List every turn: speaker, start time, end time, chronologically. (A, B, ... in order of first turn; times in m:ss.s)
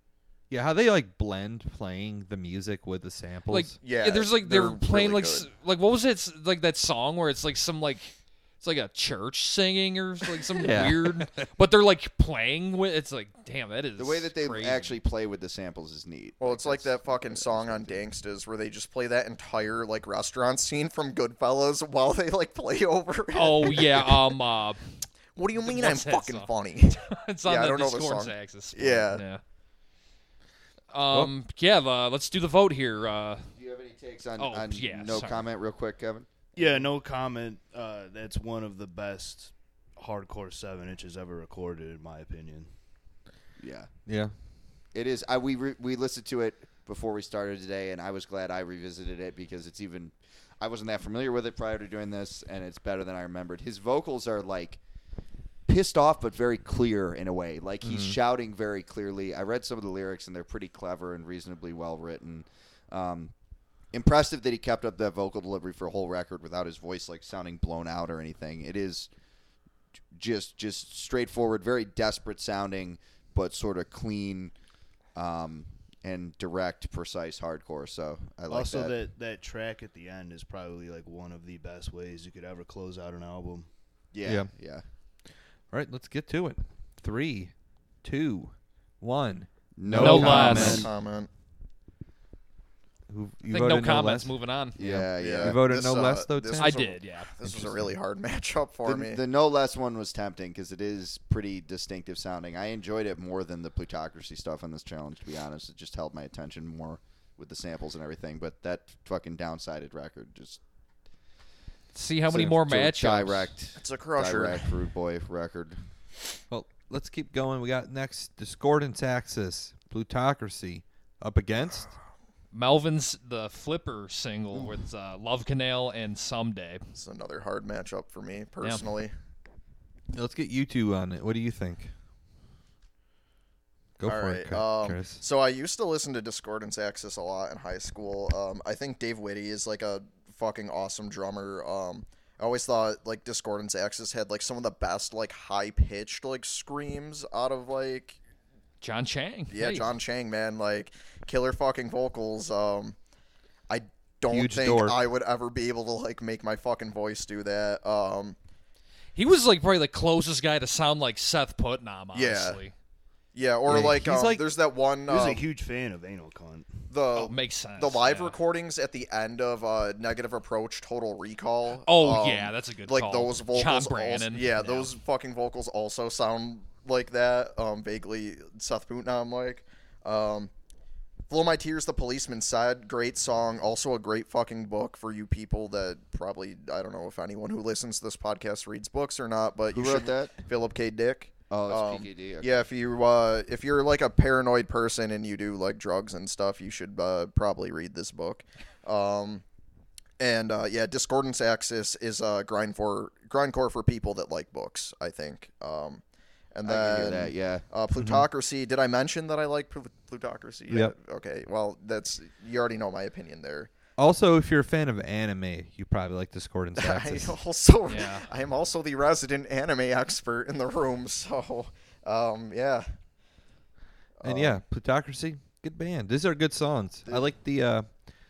0:00.5-0:03.8 A
0:03.5-0:14.9 B
0:03.8-0:05.5 C
0:10.6-0:11.4 A
0:14.0-0:18.0 D
0:16.4-0:24.3 C
0:23.3-0:24.8 B
0:25.4-0:29.2 C
0:25.6-0:29.4 B
0:30.9-0:33.5 B
0:33.5-0:36.3 D
0:34.4-0:35.4 B
0:36.5-0:42.7 E
0:43.6-0:43.9 D
0:44.0-0:44.3 A
0:44.9-0:54.8 D
0:55.6-1:03.3 D
0:57.8-0:58.1 A
1:03.9-1:09.1 D
1:10.1-1:14.5 D
1:15.1-1:19.0 D
1:18.5-1:23.7 E
1:24.1-1:24.8 D
1:24.2-1:24.5 A
1:25.7-1:30.9 A
1:29.8-1:30.9 D
1:30.0-1:30.9 B
1:30.0-1:31.3 C
1:33.1-1:36.8 A
1:33.5-1:34.8 B
1:34.8-1:35.6 D
1:35.2-1:39.2 C
1:36.6-1:37.3 B
1:37.4-1:37.9 A
1:38.8-1:50.6 D
1:51.9-1:53.5 B
1:52.3-1:55.8 D
1:53.8-1:54.7 C
1:56.5-2:01.9 A
2:02.5-2:06.8 B
2:06.9-2:09.1 C
2:08.6-2:08.9 B
2:10.1-2:11.9 A
2:14.0-2:15.2 A
2:14.0-2:28.2 C
2:28.8-2:29.9 B
2:29.5-2:33.0 C
2:33.7-2:38.4 C
2:34.3-2:35.0 A
2:39.1-2:42.7 B
2:42.1-2:42.6 C
2:43.3-2:45.4 C
2:43.7-2:44.4 A
2:45.1-2:46.9 E
2:46.9-3:00.5 C
2:47.2-2:48.4 B
2:51.8-2:54.9 B
3:01.3-3:19.4 C
3:09.7-3:10.3 D
3:11.5-3:12.6 D
3:20.2-3:33.7 C
3:26.6-3:27.6 D
3:28.0-3:28.3 A
3:30.7-3:30.9 A
3:34.0-3:37.4 A
3:36.8-3:42.8 C
3:37.9-3:38.3 B
3:44.2-3:44.6 C
3:44.2-3:47.9 A